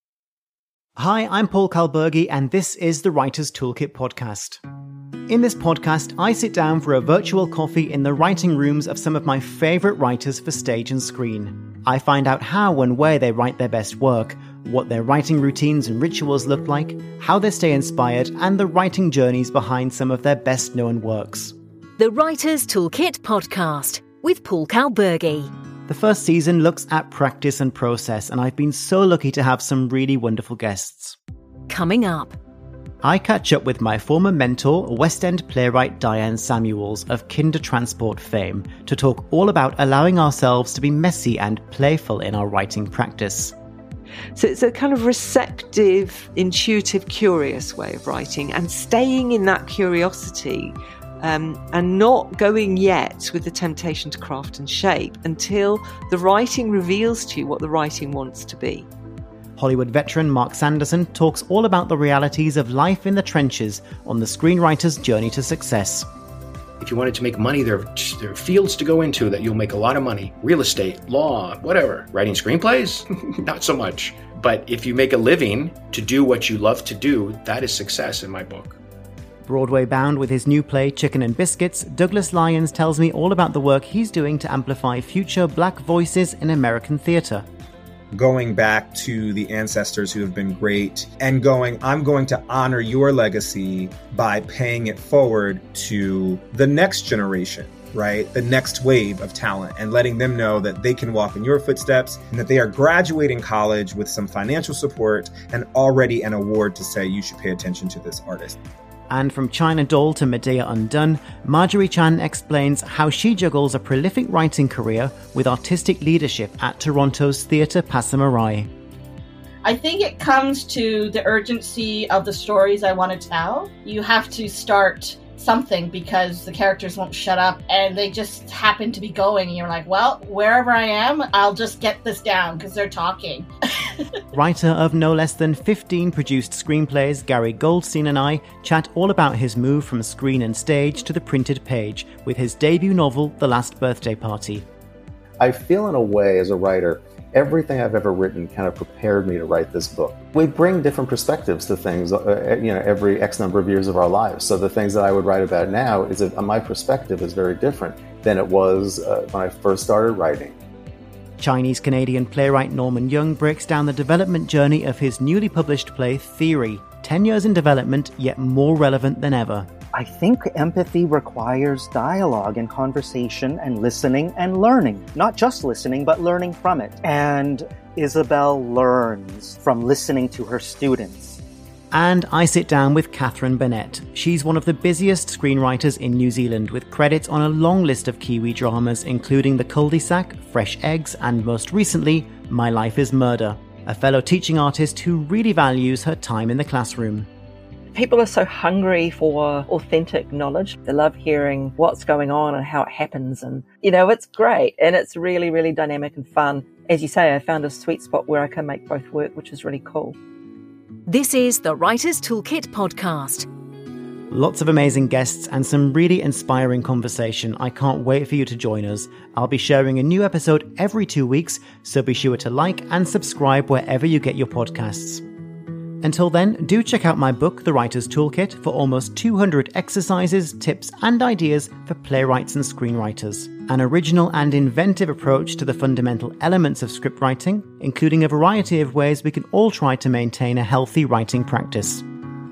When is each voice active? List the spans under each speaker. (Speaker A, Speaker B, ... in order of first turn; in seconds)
Speaker A: 1.0-4.6, 5.3-21.6, 25.9-31.2, 33.0-43.5, 59.6-66.1, 79.5-87.5, 109.1-118.7, 134.3-144.7, 161.4-169.7, 181.9-197.3, 214.3-225.2, 226.0-242.0
Speaker B: 22.0-25.5, 31.7-32.4, 211.1-213.5
Speaker C: 44.3-58.9
Speaker D: 66.8-78.8
Speaker E: 88.1-108.6
Speaker F: 119.6-133.5
Speaker G: 145.4-160.6
Speaker H: 169.9-181.4
Speaker I: 197.9-210.2